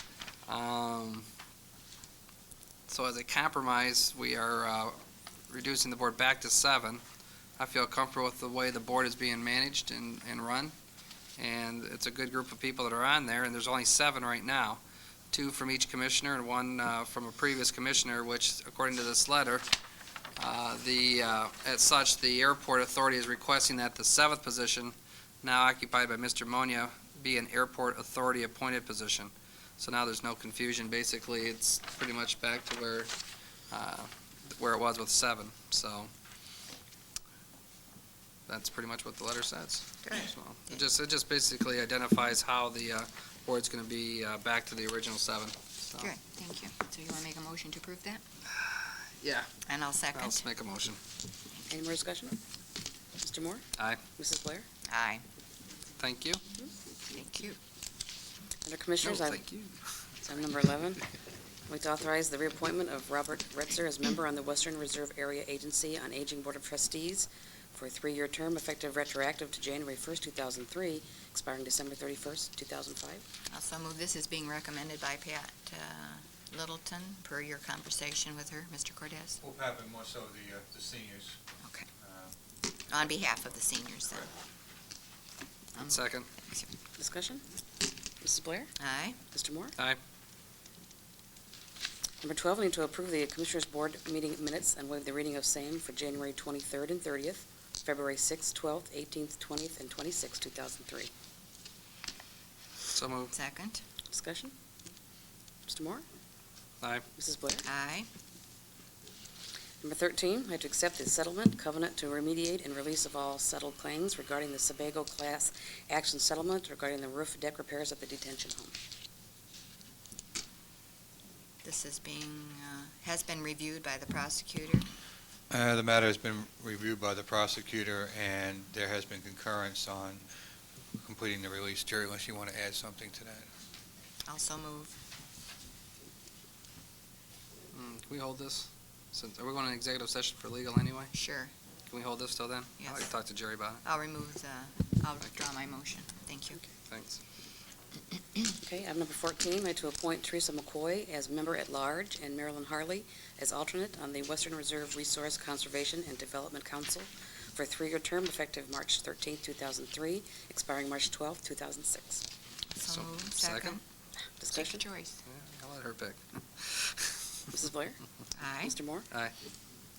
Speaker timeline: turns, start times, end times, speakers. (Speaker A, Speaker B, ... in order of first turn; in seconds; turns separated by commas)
Speaker A: 0.5-1.2, Speaker A: 2.9-5.0, Speaker A: 5.5-7.0, Speaker A: 7.6-10.7, Speaker A: 11.4-14.8, Speaker A: 15.3-19.6, Speaker A: 20.4-33.1, Speaker A: 33.7-36.1, Speaker A: 38.5-46.1, Speaker B: 40.0-40.8, Speaker B: 46.0-48.2, Speaker A: 48.5-49.5, Speaker B: 49.6-50.5, Speaker A: 50.1-51.0, Speaker C: 51.7-52.4, Speaker C: 53.2-54.7, Speaker B: 54.9-55.2, Speaker A: 56.0-56.4, Speaker B: 57.1-57.6, Speaker C: 58.6-59.4, Speaker A: 59.0-59.8, Speaker C: 60.2-61.0, Speaker C: 61.7-73.2, Speaker B: 73.5-79.4, Speaker D: 79.4-81.4, Speaker D: 82.0-82.3, Speaker B: 82.9-84.3, Speaker B: 85.7-86.7, Speaker A: 85.8-86.3, Speaker C: 87.0-87.4, Speaker C: 88.2-88.7, Speaker B: 88.8-89.2, Speaker C: 89.3-89.8, Speaker C: 92.2-101.1, Speaker A: 102.9-103.3, Speaker B: 103.3-103.8, Speaker C: 104.1-104.5, Speaker C: 105.7-106.0, Speaker C: 107.1-107.6, Speaker B: 107.6-108.1, Speaker C: 109.8-118.7, Speaker B: 121.6-124.9, Speaker D: 125.5-130.2, Speaker D: 131.0-133.5, Speaker B: 134.3-134.9, Speaker A: 137.7-141.1, Speaker B: 141.1-141.5, Speaker A: 141.9-143.8, Speaker B: 142.8-143.1, Speaker B: 143.8-146.6, Speaker A: 146.8-147.2, Speaker C: 148.6-162.2, Speaker B: 162.8-163.8, Speaker A: 162.8-163.8, Speaker C: 164.4-164.8, Speaker B: 164.5-165.2, Speaker A: 165.2-167.1, Speaker C: 167.5-168.0, Speaker B: 168.4-168.7, Speaker C: 168.6-169.1